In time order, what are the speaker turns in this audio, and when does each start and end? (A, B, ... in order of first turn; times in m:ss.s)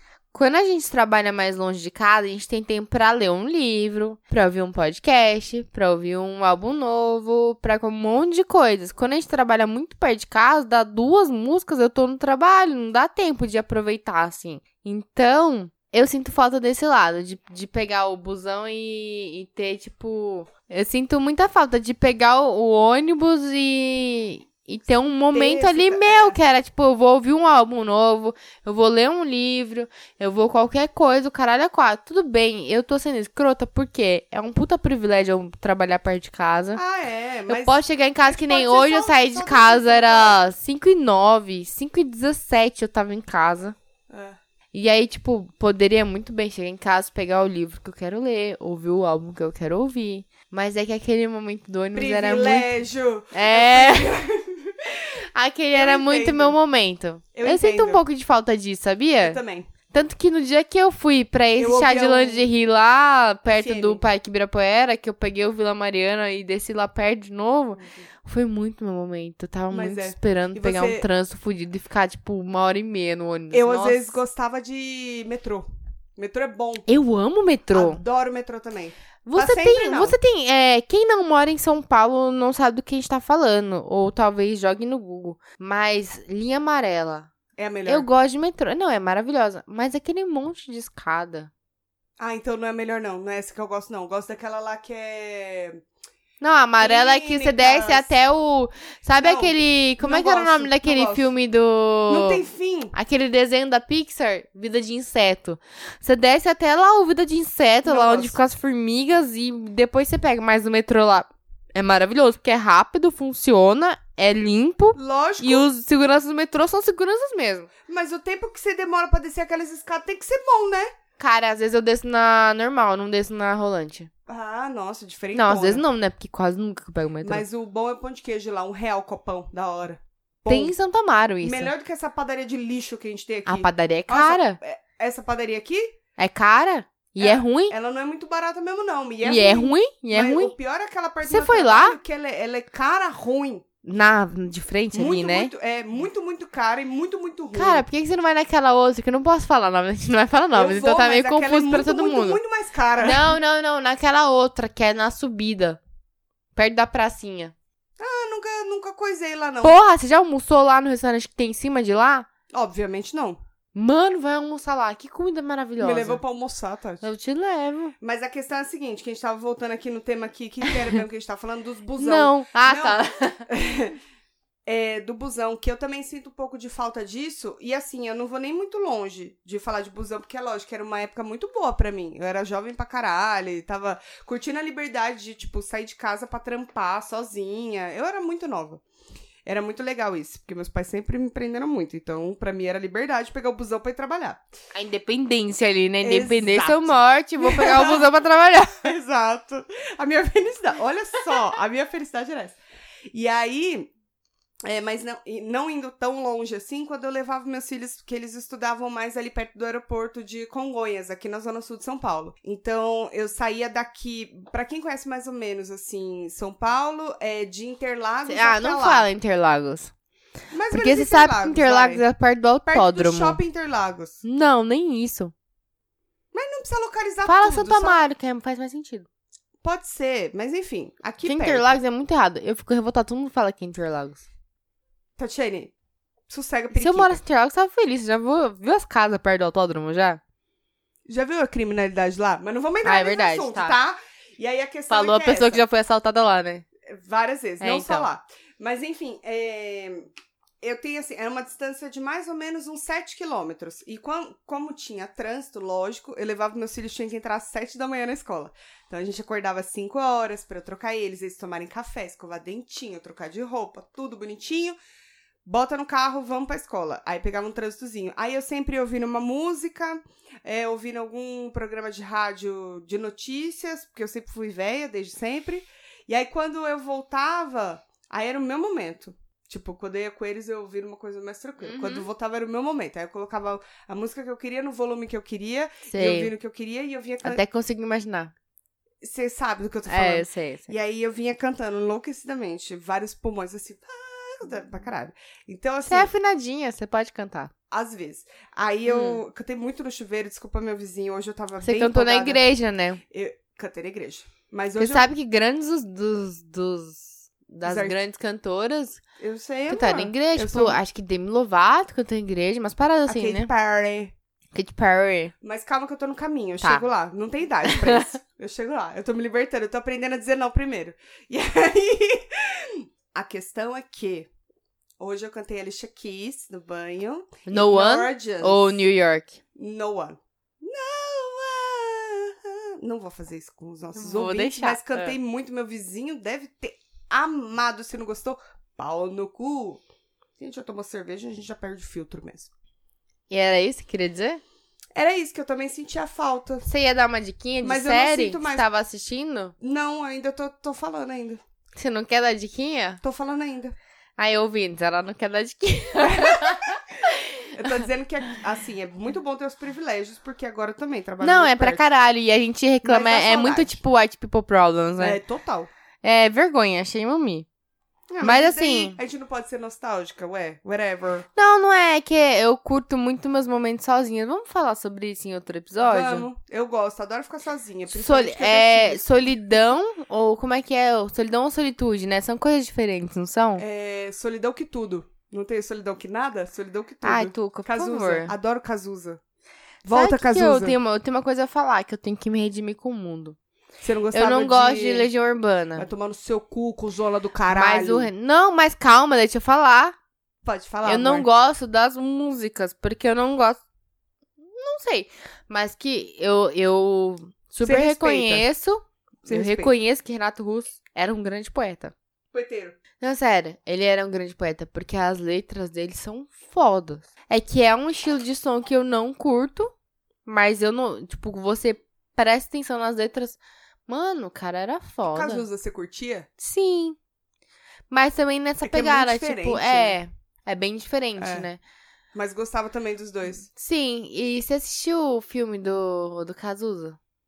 0:00.3-0:36.8 A
0:25.3-0:26.4 B
0:36.8-0:40.4 B
0:37.5-0:43.8 A
0:44.1-0:44.4 B
0:44.7-0:52.7 A
0:51.9-0:55.2 B
0:53.3-0:54.1 A
0:55.4-0:59.4 A
0:55.7-0:56.6 B
0:57.3-0:58.0 B
0:59.2-0:59.7 B
0:59.9-1:14.2 A
1:01.6-1:02.5 B
1:03.5-1:04.0 B
1:07.8-1:08.0 B
1:09.7-1:11.1 B
1:13.5-1:16.9 B
1:16.9-1:18.0 A
1:17.7-1:20.2 B
1:19.2-1:27.3 A
1:27.6-1:28.1 B
1:27.9-1:31.5 A
1:32.2-1:35.8 B
1:36.4-1:42.4 A
1:36.8-1:38.1 B
1:39.2-1:41.3 B
1:42.1-1:43.0 B
1:42.9-1:57.7 A
1:47.8-1:48.4 B
1:55.0-1:55.7 B
1:57.9-2:00.9 B
2:01.2-2:04.1 A
2:04.3-2:05.8 B
2:05.3-2:07.4 A
2:07.2-2:10.8 B
2:10.5-2:11.7 A
2:11.4-2:16.0 B
2:13.5-2:14.6 A
2:16.2-2:17.8 A
2:17.2-2:23.6 B
2:19.2-2:20.6 A
2:21.2-2:22.0 A
2:23.8-2:25.5 A
2:24.9-2:27.8 B
2:27.5-2:32.4 A
2:30.5-2:33.4 B
2:33.0-2:35.8 A
2:36.6-2:37.5 A
2:38.0-2:39.8 B
2:39.6-2:42.3 A
2:42.5-2:43.4 B
2:43.8-2:46.2 A
2:45.8-2:47.1 B
2:47.0-2:48.0 A
2:48.0-2:54.0 B
2:52.0-2:53.5 A
2:54.7-3:08.8 B
3:09.5-3:14.4 B
3:14.7-3:18.8 A
3:16.0-3:18.1 B
3:18.8-3:22.6 B
3:23.1-3:23.9 B
3:24.6-3:39.1 B
3:38.3-3:39.9 A
3:40.5-3:42.0 B
3:40.7-3:43.4 A
3:42.7-3:44.2 B
3:44.2-3:45.3 A
3:46.3-3:48.0 B
3:47.3-3:49.1 A
3:49.6-3:51.7 B
3:51.2-3:54.3 A
3:55.2-3:55.7 B
3:56.3-3:57.2 B
3:56.7-4:00.2 A
4:01.1-4:05.6 B
4:02.8-4:03.8 A
4:04.9-4:06.6 A
4:06.9-4:10.1 B
4:07.6-4:08.1 A
4:10.6-4:24.8 B
4:25.4-4:47.4 B
4:41.6-4:42.1 A
4:45.9-4:46.3 A
4:47.2-4:48.3 A
4:49.0-4:56.1 B
4:49.9-4:50.7 A
4:55.8-4:57.5 A
4:57.7-5:02.4 B
4:58.9-4:59.2 A
5:01.6-5:03.0 A
5:03.1-5:05.1 B
5:04.8-5:09.0 A
5:07.6-5:08.0 B
5:09.2-5:10.8 B
5:09.7-5:13.5 A
5:13.1-5:14.1 B
5:14.6-5:15.3 A
5:15.4-5:24.3 B
5:17.6-5:18.2 A
5:25.0-5:28.8 B
5:27.5-5:29.4 A
5:29.6-5:39.8 B
5:34.0-5:35.2 A
5:40.4-5:42.5 B
5:43.3-5:44.4 A
5:45.0-5:46.7 B
5:46.7-5:49.5 A
5:47.6-5:48.7 B
5:49.6-5:51.4 B
5:51.8-5:53.0 A
5:53.0-5:53.8 B
5:54.2-5:57.7 A
5:56.0-5:56.8 B
5:57.5-6:01.8 B
6:01.2-6:05.2 A
6:02.8-6:03.8 B
6:05.0-6:05.7 B
6:06.0-6:07.5 A
6:08.1-6:11.3 B
6:08.2-6:09.0 A
6:11.4-6:16.3 A
6:15.8-6:19.0 B
6:17.9-6:23.6 A
6:23.6-6:29.2 B
6:27.0-6:28.3 A
6:29.8-6:30.8 B
6:29.9-6:33.4 A
6:33.8-6:35.1 B
6:34.1-6:35.9 A
6:35.8-6:38.1 B
6:37.5-6:40.0 A
6:40.4-6:41.3 B
6:40.8-6:43.6 A
6:44.4-6:51.9 A
6:47.6-6:48.5 B
6:49.2-6:49.7 B
6:52.3-6:52.8 B
6:53.0-6:59.7 A
7:00.3-7:05.4 A
7:05.1-7:06.3 B
7:06.4-7:07.0 A
7:07.9-7:11.6 A
7:08.6-7:10.0 B
7:11.2-7:11.5 B
7:12.1-7:13.5 B
7:13.6-7:17.0 A